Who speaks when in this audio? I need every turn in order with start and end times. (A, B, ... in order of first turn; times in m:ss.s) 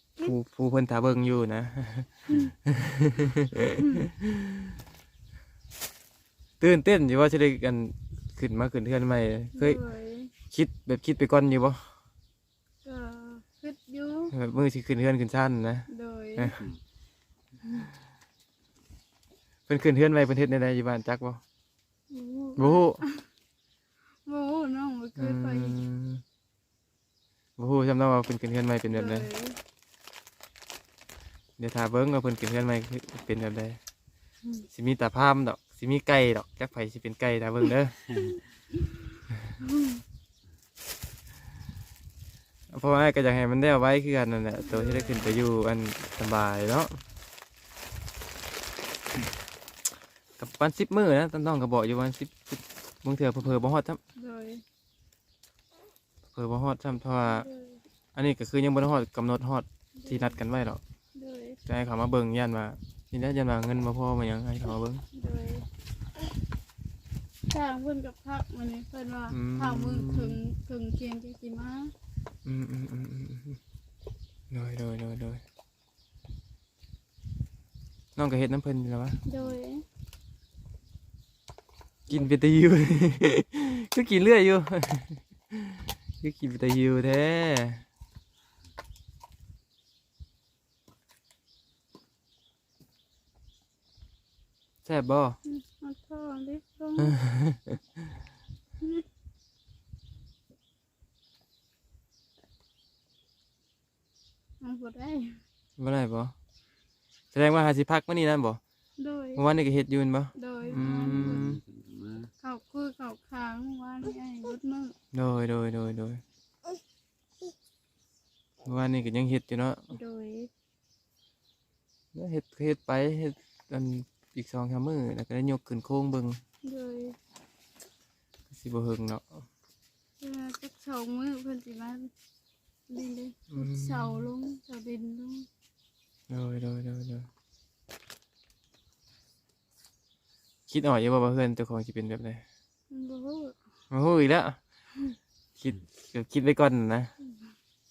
0:00.2-0:04.5 A
0:06.6-0:09.8 A
0:09.6-0:10.3 B
0:10.5-0:11.9 A
0:12.8-0:14.3 B
0:14.3-0:16.6 A
0:15.9-0:16.6 B
0:19.7-0:21.4 A
0:22.1-0:23.2 B
0:22.6-0:23.0 A
0:24.2-0:25.8 B
0:25.2-0:26.2 A
0:27.6-0:29.3 A
0:28.9-0:29.6 B
0:31.6-0:33.8 A
0:34.7-0:38.0 A
0:38.1-0:38.4 C
0:39.6-0:40.0 B
0:42.7-0:47.0 A
0:44.6-0:45.4 B
0:50.4-0:54.0 A
0:54.2-0:54.6 B
0:56.3-0:57.5 A
0:57.2-0:57.8 B
0:58.2-1:00.8 A
1:00.0-1:00.4 B
1:01.2-1:01.6 B
1:01.7-1:05.0 A
1:05.1-1:05.7 B
1:07.5-1:11.9 B
1:09.3-1:10.4 A
1:12.4-1:13.6 A
1:14.5-1:15.4 A
1:18.2-1:19.2 A
1:19.2-1:19.8 B
1:22.1-1:27.8 A
1:34.8-1:35.4 A
1:35.4-1:37.2 B
1:37.0-1:37.8 A
1:44.6-1:45.4 B
1:45.8-1:46.4 A
1:47.3-1:48.6 A
1:49.0-1:49.4 B
1:49.4-1:51.6 A
1:50.4-1:51.5 B
1:50.7-1:52.3 C
1:52.4-1:55.0 B
1:55.1-1:56.2 A
1:58.6-1:59.9 A
1:59.9-2:00.5 B
2:02.1-2:06.4 A
2:06.6-2:07.2 B
2:08.5-2:09.2 A
2:10.2-2:12.1 B
2:12.9-2:15.5 B
2:13.5-2:14.3 A
2:16.3-2:17.3 A
2:20.7-2:22.4 A
2:22.9-2:23.6 B
2:23.9-2:24.6 A
2:25.6-2:27.1 A